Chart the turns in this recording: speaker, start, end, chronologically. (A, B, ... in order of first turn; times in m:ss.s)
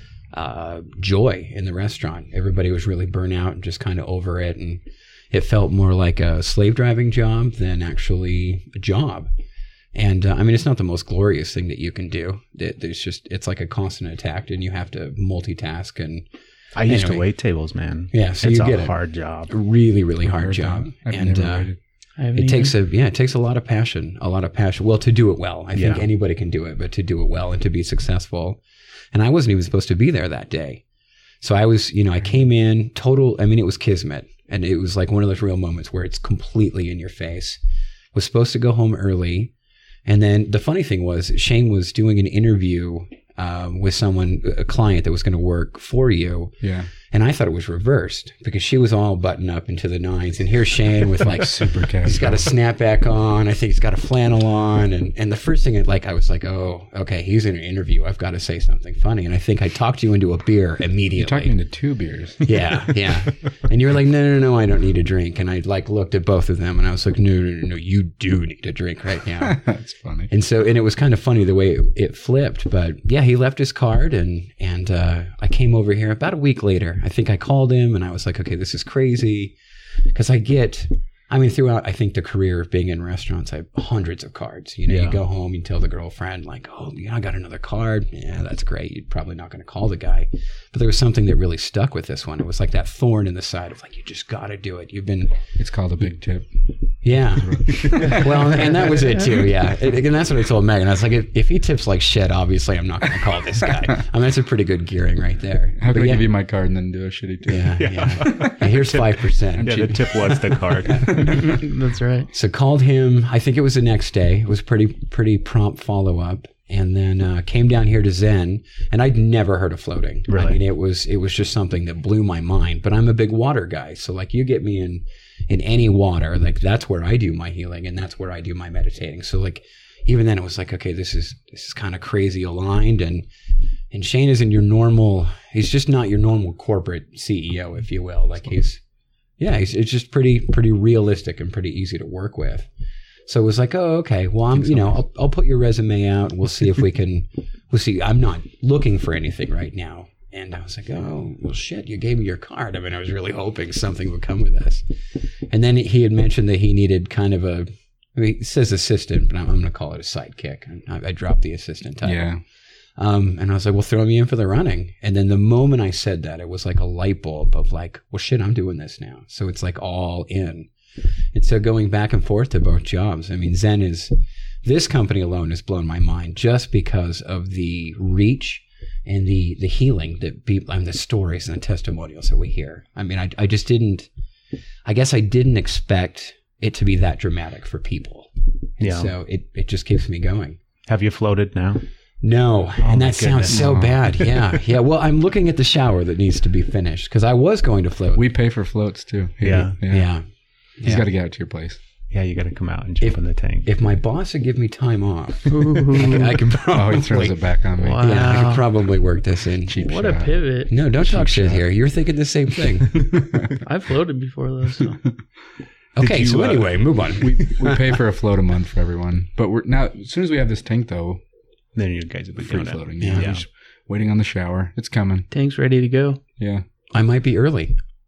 0:00.3-0:09.3 A
0:09.9-0:16.3 A
0:16.7-0:19.5 B
0:16.9-0:17.3 A
0:18.1-0:21.7 A
0:20.2-0:21.8 C
0:22.2-0:22.7 D
0:22.3-0:28.6 A
0:25.8-0:26.0 B
0:29.1-0:30.8 A
0:31.4-0:37.6 A
0:38.1-0:39.5 A
0:40.0-1:01.6 A
0:46.6-0:46.9 C
0:51.3-0:52.5 C
1:01.2-1:02.6 C
1:02.4-1:09.8 A
1:09.4-1:10.3 C
1:10.3-1:19.6 A
1:20.1-1:35.5 A
1:24.9-1:25.2 B
1:35.6-1:38.6 C
1:37.0-1:46.3 A
1:45.8-1:48.3 C
1:47.5-1:50.7 A
1:47.8-1:51.3 B
1:49.6-1:50.4 C
1:51.2-1:51.5 C
1:51.4-1:52.3 D
1:52.3-2:13.3 A
2:00.3-2:00.6 B
2:13.9-2:18.8 A
2:19.4-2:22.7 A
2:23.3-2:54.1 A
2:42.0-2:42.4 C
2:54.6-3:04.1 A
3:04.8-3:10.6 A
3:08.8-3:09.1 B
3:10.9-3:11.8 B
3:12.2-3:18.2 A
3:12.8-3:14.4 B
3:13.5-3:14.0 C
3:18.1-3:21.8 C
3:19.4-3:19.8 B
3:19.9-3:21.1 A
3:22.1-3:23.7 B
3:23.0-3:29.8 A
3:25.5-3:26.3 D
3:26.7-3:28.5 C
3:27.8-3:28.7 D
3:29.6-3:31.7 C
3:29.8-3:30.8 D
3:30.7-3:33.2 A
3:33.6-3:35.1 D
3:36.0-3:37.9 A
3:36.0-3:37.4 B
3:37.2-3:41.2 C
3:41.8-3:43.4 B
3:42.4-3:45.3 C
3:43.0-3:43.3 A
3:45.3-3:46.2 D
3:46.4-3:46.6 C
3:46.9-3:47.9 A